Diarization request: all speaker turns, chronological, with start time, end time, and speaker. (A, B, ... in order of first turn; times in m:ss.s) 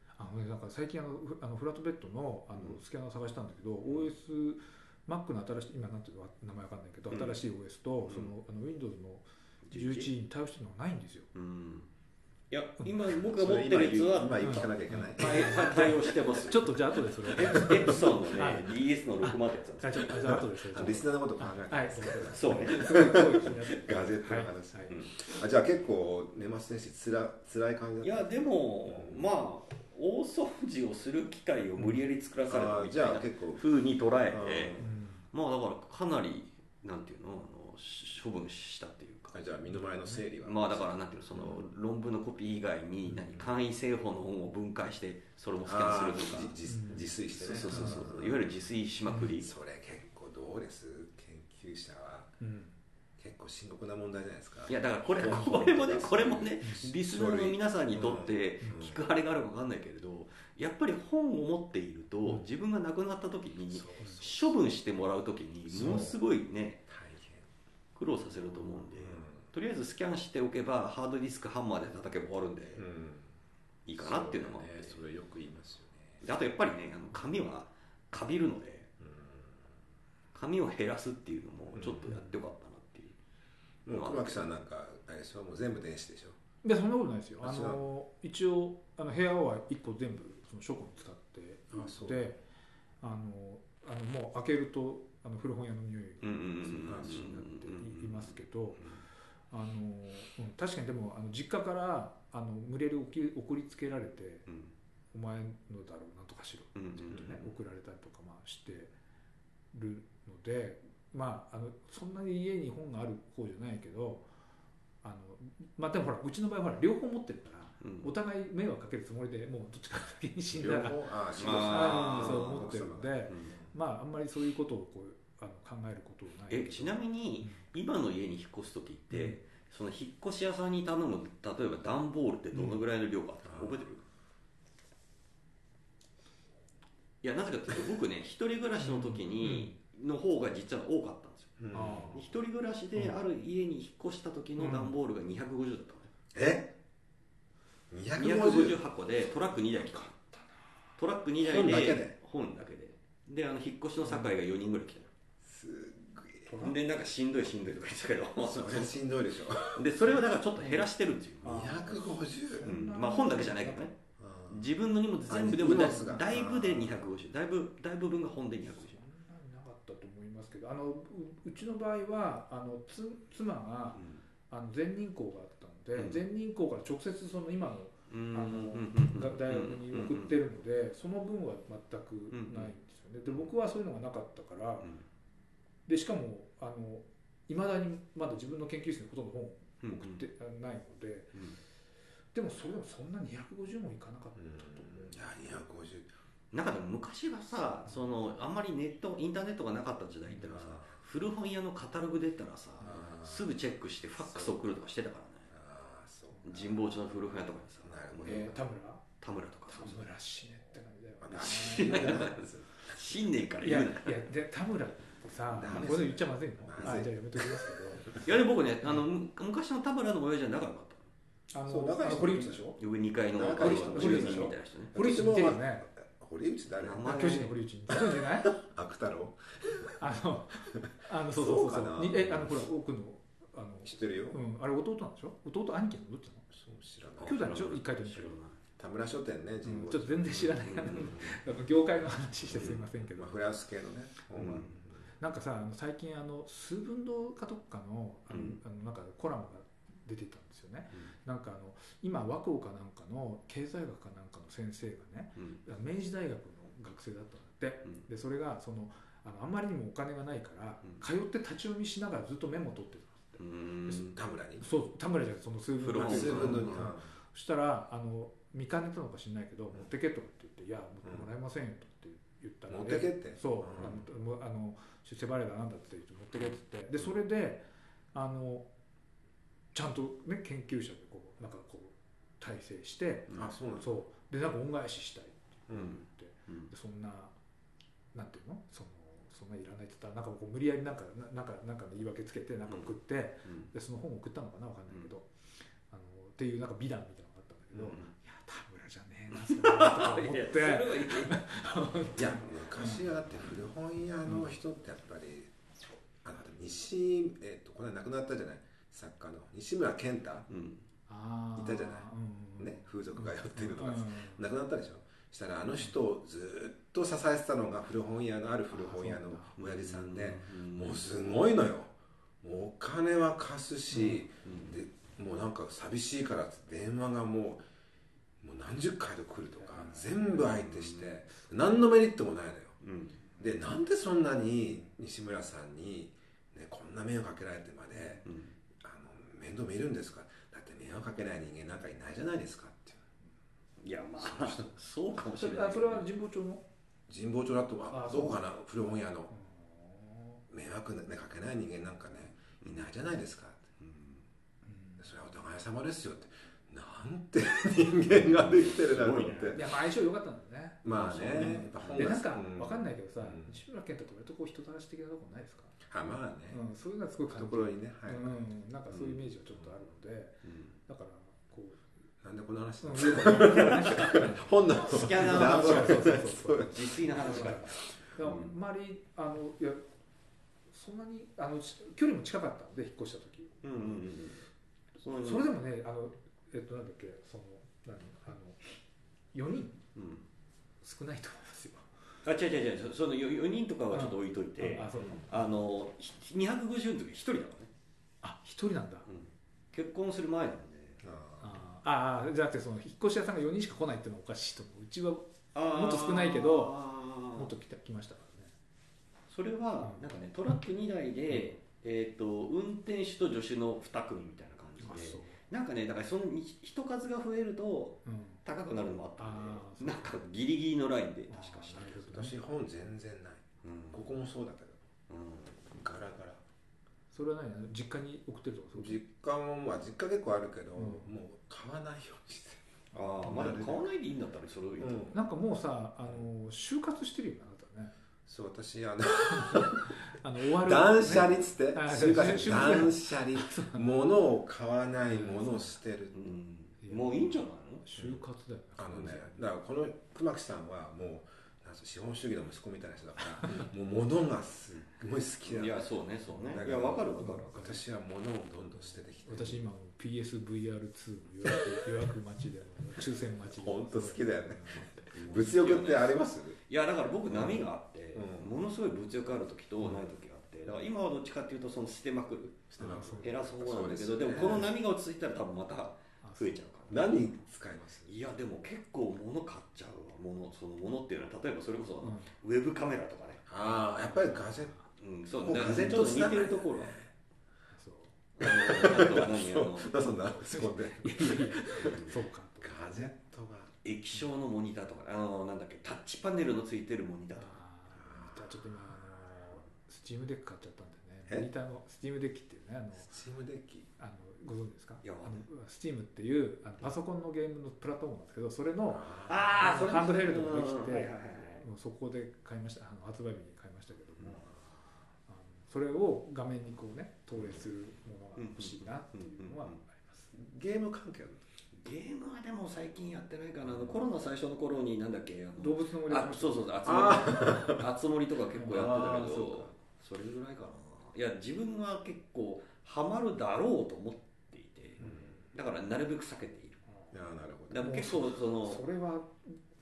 0:00.2-0:11.3 A
0:07.1-0:07.4 B
0:09.7-0:10.1 B
0:11.3-0:11.9 B
0:12.5-0:20.2 B
0:13.2-0:15.9 C
0:14.4-0:25.0 A
0:20.2-0:28.3 C
0:22.3-0:23.0 B
0:28.0-0:39.4 B
0:28.8-0:29.3 C
0:32.5-0:33.6 C
0:34.3-0:34.9 C
0:34.8-0:35.2 A
0:39.3-0:41.6 C
0:39.7-0:40.2 A
0:40.4-0:46.6 B
0:45.6-0:48.4 C
0:46.7-0:48.1 A
0:47.3-0:49.5 B
0:49.4-0:52.4 C
0:52.4-0:52.7 A
0:53.2-0:59.0 C
0:54.7-1:06.8 B
1:03.7-1:04.6 C
1:05.7-1:06.2 C
1:06.9-1:07.4 C
1:08.0-1:12.9 B
1:09.0-1:09.5 C
1:12.8-1:13.3 C
1:13.9-1:15.0 B
1:14.0-1:16.2 C
1:16.2-1:18.9 B
1:19.0-1:19.5 C
1:20.3-1:23.2 B
1:21.8-1:22.1 C
1:22.1-1:22.4 A
1:23.9-1:26.4 C
1:23.9-1:24.5 B
1:26.6-1:32.4 A
1:27.4-1:27.8 C
1:31.7-1:32.2 C
1:33.0-1:38.9 A
1:36.2-1:38.4 B
1:36.8-1:37.3 C
1:39.5-1:44.5 A
1:44.5-1:44.7 B
1:45.1-1:48.9 A
1:46.8-1:47.5 B
1:49.7-1:54.2 A
1:55.0-2:07.6 A
1:57.8-1:58.1 B
2:00.6-2:03.6 C
2:01.4-2:02.6 B
2:03.3-2:03.6 B
2:06.5-2:14.0 B
2:09.1-2:09.4 A
2:12.5-2:12.8 A
2:17.2-2:26.1 B
2:18.8-2:19.8 A
2:21.6-2:22.3 C
2:21.7-2:22.2 A
2:24.6-2:24.9 A
2:26.3-2:26.7 C
2:27.9-2:28.8 C
2:28.2-2:30.1 B
2:29.9-2:30.4 A
2:31.0-2:35.1 B
2:31.4-2:32.1 C
2:34.0-2:34.3 A
2:35.4-2:36.5 C
2:36.5-2:36.8 A
2:36.6-2:39.0 B
2:38.4-2:39.9 C
2:39.8-2:41.7 B
2:40.2-2:40.9 A
2:41.4-2:43.9 A
2:41.4-2:42.8 C
2:42.7-2:44.0 B
2:44.2-2:44.7 C
2:44.5-2:49.0 B
2:45.3-2:47.1 C
2:48.7-3:04.9 A
2:56.0-2:56.2 B
2:58.1-3:00.4 B
3:02.3-3:02.7 B
3:05.9-3:11.4 A
3:09.8-3:10.2 B
3:12.4-3:15.6 A
3:14.4-3:16.1 C
3:16.5-3:25.5 B
3:20.4-3:20.9 C
3:22.8-3:23.5 C
3:25.5-3:27.0 C
3:26.4-3:28.6 B
3:27.8-3:28.6 C
3:28.2-3:29.0 A
3:29.2-3:30.0 B
3:29.7-3:32.3 A
3:31.2-3:32.9 C
3:31.3-3:34.2 B
3:33.6-3:38.2 A
3:35.5-3:38.2 C
3:38.2-3:41.0 B
3:41.5-3:42.8 A
3:41.7-3:42.7 C
3:42.8-3:44.9 B
3:43.3-3:47.1 C
3:43.5-3:45.9 A
3:46.8-3:47.5 B
3:47.0-3:48.6 A
3:48.5-3:50.0 C
3:50.0-3:56.5 A
3:50.6-3:52.6 C
3:53.8-3:54.4 C
3:56.5-3:57.4 C
3:57.2-3:58.6 B
3:57.2-3:58.4 A
3:58.8-4:01.4 C
3:59.6-4:03.4 A
4:00.7-4:01.2 B
4:02.5-4:05.0 C
4:04.4-4:24.1 A
4:04.4-4:04.8 B
4:08.3-4:08.6 B
4:23.4-4:24.2 B
4:24.1-4:24.6 C
4:24.6-4:38.7 A
4:25.8-4:26.9 B
4:26.0-4:27.1 C
4:32.7-4:34.0 C
4:39.7-4:47.3 A
4:43.4-4:43.9 C
4:45.7-4:46.0 C
4:45.7-4:46.7 B
4:48.1-4:55.3 A
4:55.9-5:03.1 A
4:57.8-4:58.1 B
4:59.4-5:01.5 B
5:02.2-5:05.5 C
5:04.2-5:04.5 A
5:06.2-5:10.5 C
5:10.5-5:10.8 B
5:11.1-5:14.4 A
5:11.6-5:12.1 C
5:12.6-5:27.6 C
5:18.7-5:19.6 A
5:19.6-5:21.0 B
5:23.9-5:24.2 A
5:24.4-5:24.8 B
5:28.4-5:32.8 C
5:29.6-5:30.2 A
5:30.4-5:31.1 B
5:32.8-5:33.2 B
5:33.4-5:38.3 C
5:37.9-5:38.3 A
5:38.3-5:38.5 B
5:38.8-5:43.0 C
5:43.8-5:46.1 B
5:44.2-5:44.7 C
5:45.3-5:46.6 A
5:47.1-5:49.3 C
5:47.9-5:48.4 A
5:49.3-5:50.4 A
5:50.5-5:53.6 C
5:52.6-5:52.9 B
5:53.8-5:54.2 B
5:54.7-5:55.1 A
5:55.0-5:59.6 C
5:58.1-5:59.7 B
5:59.6-6:00.8 A
6:00.8-6:03.6 C
6:00.9-6:02.2 B
6:01.4-6:05.8 A
6:05.9-6:06.6 C
6:06.5-6:11.8 A
6:07.3-6:08.3 C
6:08.9-6:09.2 B
6:10.4-6:10.8 B
6:12.2-6:17.6 C
6:12.8-6:19.8 A
6:13.3-6:13.8 B
6:14.8-6:18.5 B
6:20.7-6:23.9 A
6:23.6-6:24.4 B
6:25.0-6:25.5 B
6:25.2-6:28.8 A
6:29.3-6:29.8 A
6:30.0-6:30.2 B
6:30.8-6:31.9 A
6:32.2-6:37.7 B
6:33.9-6:35.4 A
6:38.2-6:39.1 A
6:39.1-6:41.0 B
6:41.0-6:41.5 C
6:41.4-6:46.8 A
6:45.5-6:47.5 B
6:47.3-6:48.5 A
6:49.3-7:02.0 B
6:49.8-6:50.1 A
6:51.3-6:51.6 A
6:54.8-6:55.4 A
6:58.1-6:58.4 A
6:59.2-7:00.2 A
7:01.3-7:02.4 A
7:02.0-7:04.8 C
7:03.6-7:04.0 B
7:05.1-7:05.6 B
7:05.7-7:06.4 C
7:07.1-7:09.0 A
7:08.8-7:12.7 C
7:10.8-7:11.1 A
7:12.9-7:15.1 B
7:13.2-7:13.8 C
7:14.8-7:15.2 C
7:15.1-7:17.9 A
7:18.3-7:26.1 C
7:19.4-7:23.8 A
7:25.1-7:25.8 A
7:26.1-7:27.8 B
7:26.8-7:29.4 A
7:28.8-7:35.9 C
7:33.3-7:33.7 A
7:35.5-7:37.6 B
7:36.5-7:39.6 C
7:37.1-7:37.8 A
7:39.2-7:45.1 A
7:43.5-7:46.6 C
7:45.1-7:46.2 B
7:46.7-7:57.2 B
7:47.3-7:48.5 C
7:52.7-7:54.7 C
7:52.8-7:53.4 A
7:56.2-7:56.6 A
7:56.9-7:58.3 C
7:58.1-8:03.4 B
8:02.0-8:02.3 A
8:03.5-8:04.7 C
8:03.6-8:04.8 A
8:05.0-8:07.0 B
8:05.4-8:07.1 C
8:07.7-8:08.2 A
8:08.4-8:09.9 B
8:08.4-8:12.0 C
8:10.5-8:12.9 A
8:11.8-8:12.1 B
8:12.6-8:13.7 C
8:13.8-8:17.6 B
8:17.4-8:23.1 A
8:18.0-8:18.4 C
8:23.0-8:23.9 C
8:24.0-8:34.5 A
8:25.0-8:25.4 B
8:28.9-8:30.0 C
8:29.3-8:31.6 B
8:35.3-8:40.3 A
8:38.4-8:39.8 B
8:40.3-8:41.4 C
8:41.8-8:56.8 B
8:43.7-8:44.0 C
8:45.6-8:47.7 A
8:46.9-8:47.9 C
8:48.6-8:49.0 A
8:48.7-8:49.7 C
8:55.0-8:55.3 C
8:55.0-8:55.4 A
8:57.1-8:57.8 C
8:57.7-8:58.8 B
8:57.7-8:59.6 A